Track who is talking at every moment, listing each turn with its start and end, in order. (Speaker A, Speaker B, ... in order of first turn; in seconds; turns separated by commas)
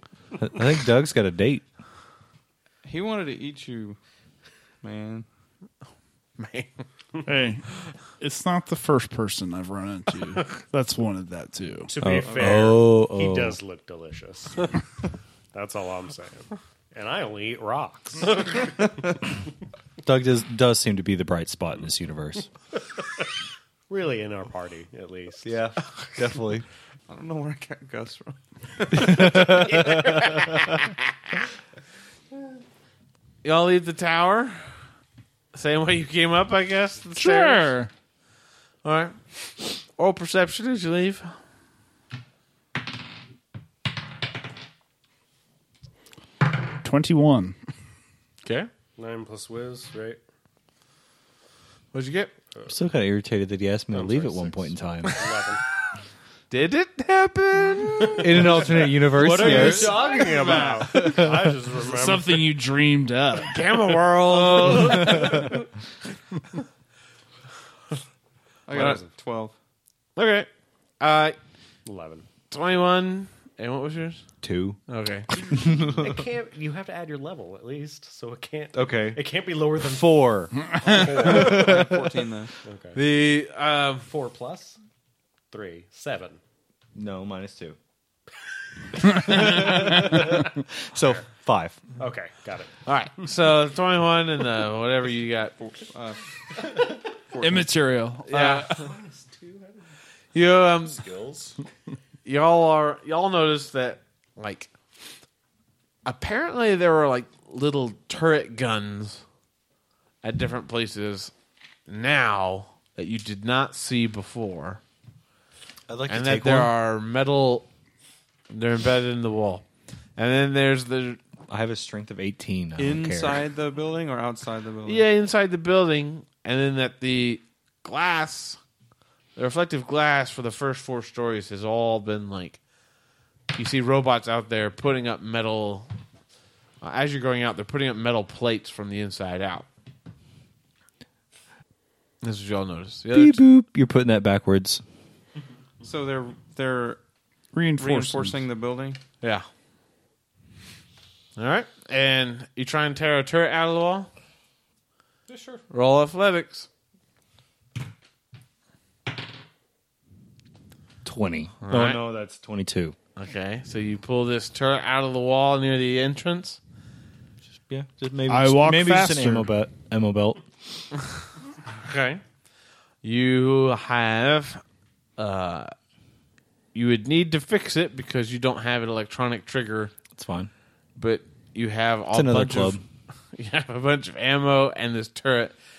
Speaker A: 0.4-1.6, Speaker B: 2.8-4.0, Speaker B: 4.8-5.3, Speaker C: 6.4-6.8, Speaker D: 7.2-7.7, Speaker D: 8.2-11.9, Speaker E: 11.9-14.7, Speaker A: 12.0-13.6, Speaker B: 12.2-12.7, Speaker E: 15.5-19.2, Speaker A: 20.0-22.5, Speaker E: 23.9-25.5, Speaker A: 25.4-26.7, Speaker B: 27.1-29.5, Speaker A: 29.0-30.0, Speaker C: 33.4-34.7, Speaker C: 35.5-37.7, Speaker D: 37.2-37.9, Speaker C: 38.8-41.4, Speaker D: 46.8-47.6, Speaker C: 48.4-48.7, Speaker E: 49.0-50.2, Speaker C: 51.9-52.3, Speaker A: 52.7-55.2, Speaker E: 53.9-55.6, Speaker C: 56.5-58.6, Speaker E: 58.0-62.5, Speaker A: 58.2-60.2, Speaker D: 59.4-63.8, Speaker A: 61.0-61.5, Speaker C: 63.5-65.5, Speaker D: 64.3-65.5, Speaker E: 65.0-65.5, Speaker B: 68.7-69.5, Speaker E: 68.7-69.0, Speaker C: 70.2-70.5, Speaker C: 71.0-71.4, Speaker E: 71.9-72.3, Speaker C: 72.5-74.2, Speaker A: 74.4-74.8, Speaker C: 74.9-75.3, Speaker A: 75.5-76.1, Speaker E: 75.6-81.9, Speaker A: 78.7-79.2, Speaker A: 79.8-80.6, Speaker A: 81.2-81.8, Speaker B: 81.2-82.5, Speaker E: 82.6-83.0, Speaker C: 83.0-84.1, Speaker E: 84.1-84.8, Speaker E: 85.5-86.4, Speaker A: 87.0-87.8, Speaker D: 89.0-90.2, Speaker A: 89.1-91.8, Speaker E: 89.4-90.4, Speaker E: 92.0-92.8, Speaker C: 92.8-95.5, Speaker B: 95.6-96.7, Speaker B: 97.3-97.7, Speaker D: 97.4-98.8, Speaker C: 98.3-98.7, Speaker E: 98.5-99.9, Speaker C: 100.3-101.0, Speaker E: 101.0-101.5, Speaker C: 102.2-104.7, Speaker C: 106.0-109.2, Speaker C: 110.2-111.3, Speaker C: 111.9-114.8, Speaker A: 115.9-116.7, Speaker C: 116.1-117.7, Speaker C: 118.5-119.7, Speaker C: 120.2-121.2, Speaker A: 121.5-123.4, Speaker B: 122.8-125.1, Speaker C: 124.9-128.6, Speaker C: 129.4-132.6, Speaker C: 133.5-135.9, Speaker C: 136.8-139.7, Speaker C: 142.2-143.4, Speaker A: 143.1-144.8, Speaker B: 145.8-147.0, Speaker D: 147.5-148.4, Speaker B: 147.8-149.0, Speaker C: 149.2-149.5, Speaker C: 151.4-154.1, Speaker E: 155.3-155.6, Speaker C: 155.7-156.7, Speaker A: 161.0-163.0, Speaker C: 161.6-162.0, Speaker C: 163.2-166.6, Speaker A: 167.5-170.8, Speaker D: 168.3-169.5, Speaker C: 171.7-172.2, Speaker C: 173.0-174.6, Speaker C: 175.2-175.7, Speaker C: 176.7-179.9, Speaker A: 180.2-180.5, Speaker C: 181.0-182.8, Speaker A: 182.1-182.8, Speaker C: 183.3-185.5